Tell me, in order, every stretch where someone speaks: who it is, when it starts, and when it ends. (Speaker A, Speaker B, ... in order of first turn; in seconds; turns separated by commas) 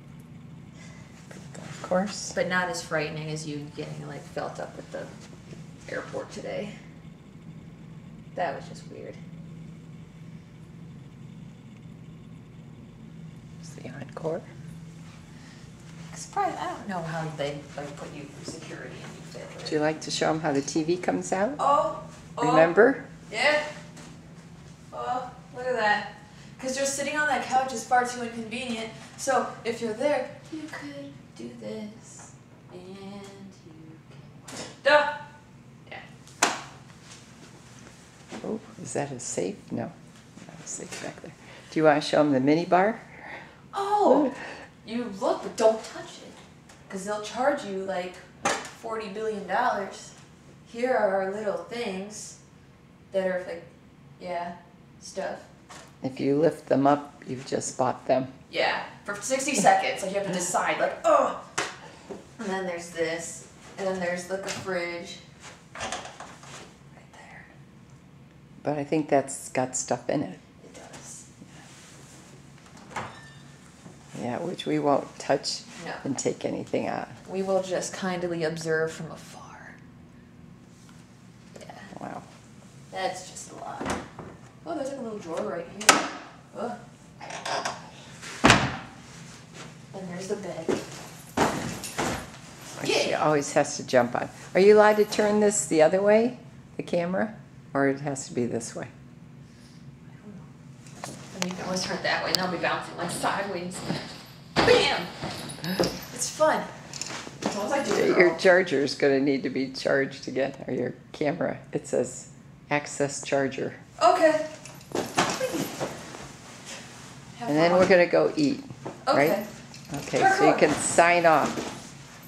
Speaker A: 1.3-2.4, Speaker B: 2.3-5.1, Speaker B: 5.9-6.8, Speaker B: 8.3-9.2, Speaker A: 13.6-14.5, Speaker B: 16.1-19.8, Speaker A: 19.7-21.6, Speaker B: 21.6-22.7, Speaker A: 22.4-23.1, Speaker B: 23.3-23.7, Speaker B: 24.9-35.1, Speaker A: 38.4-43.4, Speaker B: 43.7-52.4, Speaker B: 53.1-53.7, Speaker B: 54.2-55.5, Speaker A: 56.0-58.3, Speaker B: 58.5-61.4, Speaker B: 62.4-65.2, Speaker B: 67.0-67.5, Speaker A: 68.6-70.4, Speaker B: 70.6-71.3, Speaker A: 74.1-77.2, Speaker B: 75.8-76.0, Speaker B: 77.2-79.8, Speaker B: 81.5-81.9, Speaker A: 81.9-82.3, Speaker B: 82.9-84.0, Speaker B: 84.6-86.8, Speaker B: 89.9-90.8, Speaker A: 92.8-98.9, Speaker B: 92.8-93.2, Speaker B: 100.1-100.5, Speaker B: 101.3-103.8, Speaker B: 104.6-105.1, Speaker B: 106.1-106.7, Speaker B: 107.4-108.4, Speaker A: 107.9-113.8, Speaker B: 114.0-114.5, Speaker B: 115.3-115.7, Speaker B: 117.3-117.9, Speaker A: 117.5-119.4, Speaker B: 119.0-119.5, Speaker A: 119.9-121.6, Speaker B: 120.1-120.7